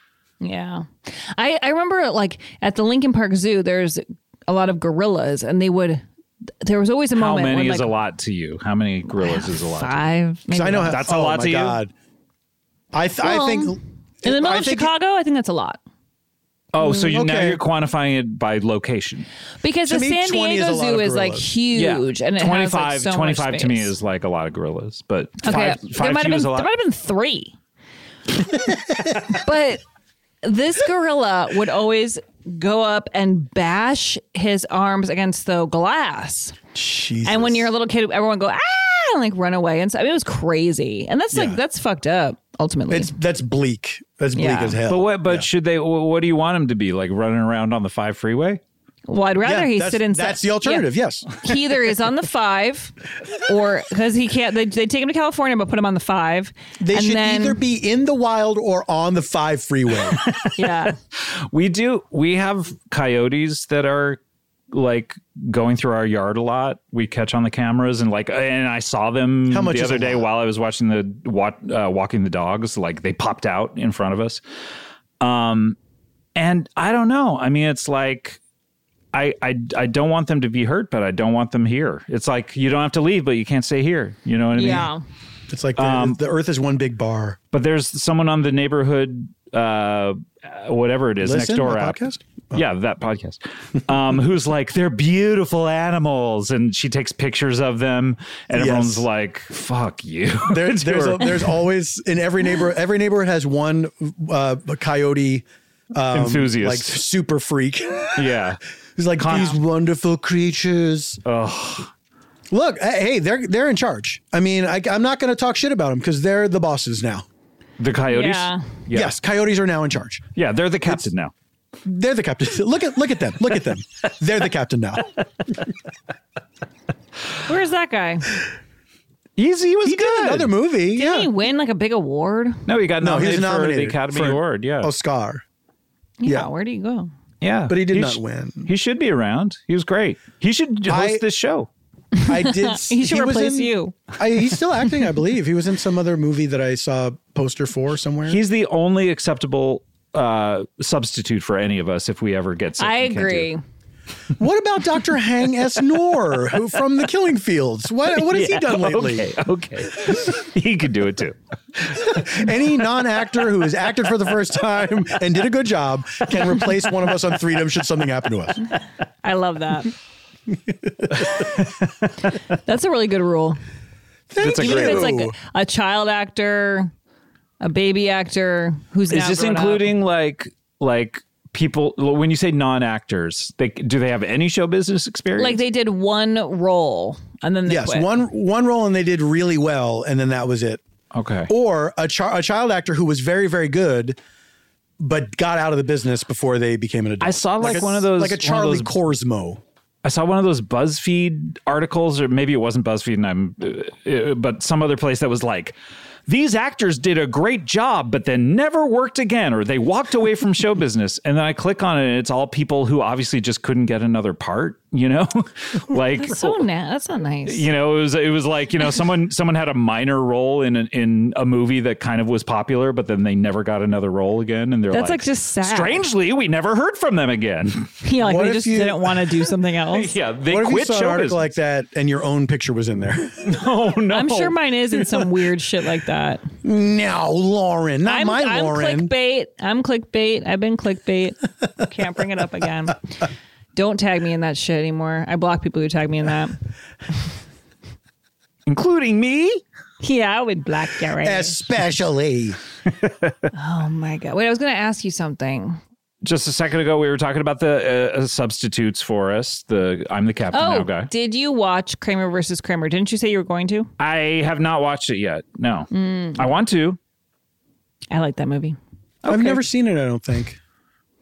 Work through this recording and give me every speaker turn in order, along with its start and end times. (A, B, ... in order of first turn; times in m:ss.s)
0:00.4-0:06.0 A
0:06.6-0:07.9 A
0:07.1-0:10.0 B
0:09.2-0:11.0 A
0:10.5-0:11.9 C
0:10.9-0:11.8 B
0:12.9-0:14.9 C
0:13.2-0:15.8 A
0:16.7-0:19.3 B
0:16.8-0:17.6 C
0:19.6-0:23.9 A
0:19.8-0:21.5 C
0:21.7-0:26.7 B
0:25.4-0:27.5 A
0:29.2-0:29.8 A
0:30.4-0:36.6 A
0:36.7-0:37.7 C
0:37.2-0:43.1 A
0:41.3-0:41.6 C
0:42.9-0:45.5 C
0:44.3-0:44.8 A
0:44.9-0:48.6 B
0:49.1-0:57.6 A
0:49.4-0:51.3 C
0:56.8-1:00.2 C
1:00.6-1:00.9 A
1:01.3-1:04.2 B
1:04.7-1:14.4 B
1:09.5-1:10.2 C
1:15.2-1:15.8 B
1:16.4-1:18.4 B
1:19.1-1:24.9 B
1:24.5-1:25.0 A
1:25.5-1:27.4 C
1:25.8-1:26.2 B
1:27.5-1:32.0 B
1:31.2-1:32.6 C
1:32.5-1:41.5 B
1:38.5-1:39.0 C
1:40.5-1:48.4 C
1:46.1-1:47.0 B
1:48.2-1:48.6 B
1:49.0-1:51.2 C
1:49.2-1:49.5 B
1:51.2-1:51.9 B
1:52.5-1:57.2 C
1:57.8-1:59.2 B
1:58.1-1:58.6 A
1:58.9-2:00.2 C
2:00.4-2:01.3 B
2:01.8-2:05.1 C
2:07.4-2:08.4 A
2:09.4-2:10.5 B
2:09.8-2:11.3 C
2:10.9-2:12.6 A
2:12.7-2:14.9 B
2:13.0-2:15.4 C
2:16.2-2:17.1 A
2:16.2-2:16.5 C
2:17.4-2:21.7 B
2:17.7-2:18.7 C
2:20.9-2:21.2 C
2:22.2-2:24.0 A
2:22.3-2:28.4 C
2:28.3-2:33.5 B
2:32.8-2:33.6 A
2:34.4-2:39.3 C
2:38.2-2:41.4 B
2:41.9-2:48.6 C
2:49.2-2:49.9 A
2:52.6-2:53.6 A
2:54.3-2:55.3 C
2:54.4-2:56.9 A
2:54.4-2:55.1 B
2:57.6-2:59.9 A
2:59.1-3:05.6 B
3:05.4-3:08.1 A
3:07.7-3:10.8 C
3:11.1-3:11.5 B
3:11.5-3:14.2 C
3:15.0-3:19.6 C
3:17.2-3:18.9 B
3:20.0-3:25.7 B
3:26.3-3:36.6 B
3:36.2-3:37.6 A
3:37.4-3:47.9 B
3:44.9-3:46.0 A
3:48.0-3:50.1 A
3:48.2-3:49.3 C
3:49.9-3:51.4 B
3:50.5-3:53.5 C
3:53.4-3:54.6 B
3:54.1-3:56.4 A
3:56.6-3:59.1 C
3:58.0-4:03.0 A
4:03.7-4:06.6 A
4:08.7-4:09.6 B
4:10.0-4:11.6 A
4:11.2-4:12.6 C
4:13.5-4:15.8 A
4:16.2-4:21.1 B
4:20.5-4:23.9 A
4:24.0-4:27.0 B
4:25.9-4:26.4 A
4:28.1-4:28.8 A
4:29.2-4:29.6 B
4:29.2-4:30.6 C